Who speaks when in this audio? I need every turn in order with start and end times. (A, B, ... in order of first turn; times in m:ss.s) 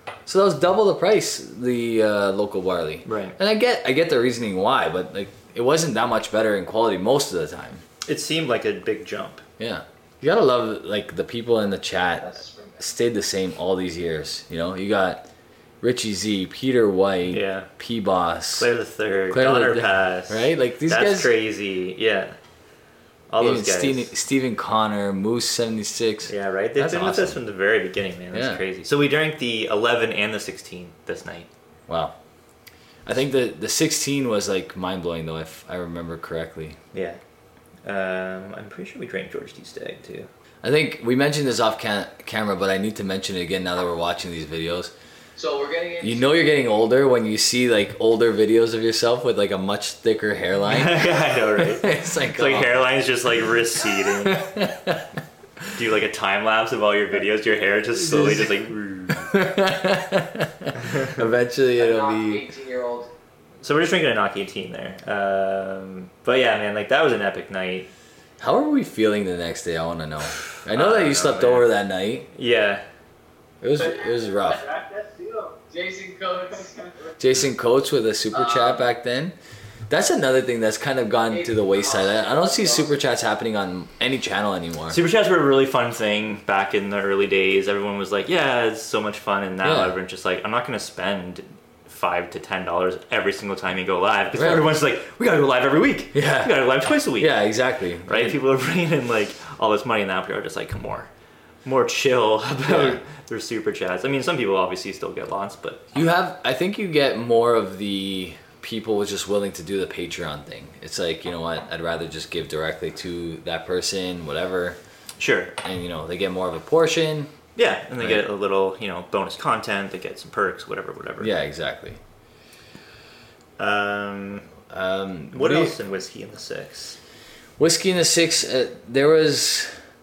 0:00.2-0:07.8 A
0:03.0-0:03.4 B
0:08.0-0:09.4 B
0:09.6-0:15.3 A
0:12.3-0:12.8 C
0:15.8-0:18.7 A
0:17.3-0:17.7 B
0:18.5-0:22.4 B
0:19.3-0:21.3 A
0:23.3-0:24.1 B
0:23.4-0:27.4 A
0:26.3-0:31.5 B
0:28.3-0:28.6 A
0:31.9-0:32.1 A
0:33.0-0:36.8 A
0:36.9-0:37.2 B
0:37.8-0:40.3 B
0:40.6-0:44.9 A
0:45.4-0:46.3 C
0:46.0-0:52.8 A
0:50.7-0:54.4 B
0:54.2-0:55.0 A
0:55.7-0:59.3 B
0:57.9-1:02.5 A
1:01.8-1:03.1 C
1:03.6-1:07.9 B
1:08.4-1:12.3 A
1:10.7-1:11.7 B
1:12.3-1:12.8 B
1:13.6-1:14.6 A
1:13.7-1:17.1 C
1:17.2-1:19.3 A
1:18.3-1:18.8 C
1:19.9-1:25.0 A
1:21.3-1:23.0 C
1:24.9-1:37.3 B
1:29.6-1:29.9 A
1:34.3-1:34.7 A
1:36.1-1:38.4 A
1:38.1-1:41.1 B
1:41.6-1:45.8 B
1:42.6-1:43.0 A
1:45.9-1:54.8 A
1:55.2-1:55.5 B
1:55.6-1:57.3 A
1:57.6-2:01.4 B
1:58.0-1:58.2 A
2:01.2-2:02.0 A
2:03.6-2:04.5 B
2:04.7-2:05.8 A
2:05.3-2:07.0 B
2:07.6-2:09.7 A